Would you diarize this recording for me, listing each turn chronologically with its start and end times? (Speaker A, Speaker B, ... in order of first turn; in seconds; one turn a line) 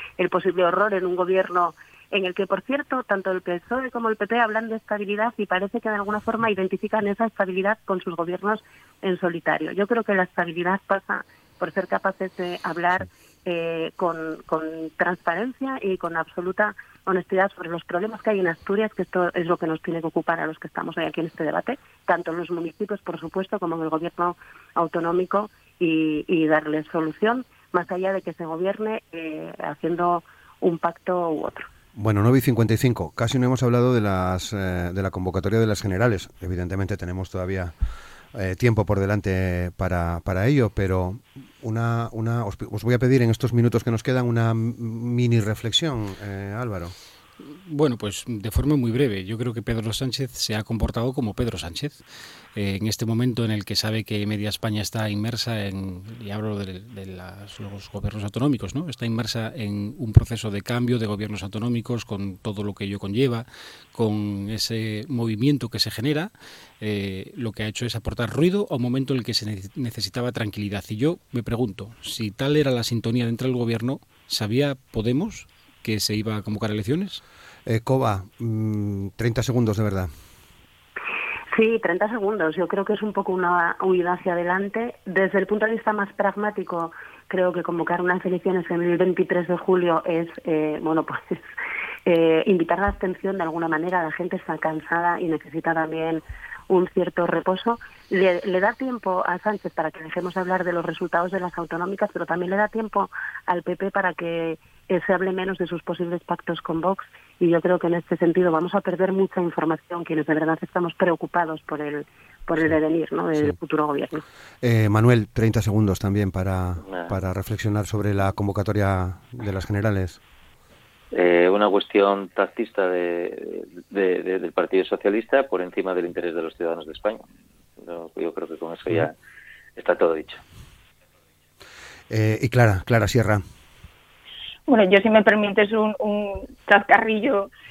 Speaker A: 0.2-31.7
Speaker B: 31.9-37.7
Speaker B: 38.3-46.9
Speaker C: 47.4-52.0
Speaker C: 52.5-77.2
Speaker B: 77.7-80.1
Speaker A: 81.5-91.4
Speaker A: 92.0-114.2
Speaker B: 114.6-120.2
Speaker D: 116.8-117.1
Speaker D: 121.1-127.3
Speaker D: 127.8-129.1
Speaker D: 129.8-130.4
Speaker B: 132.1-133.4
Speaker E: 134.7-137.5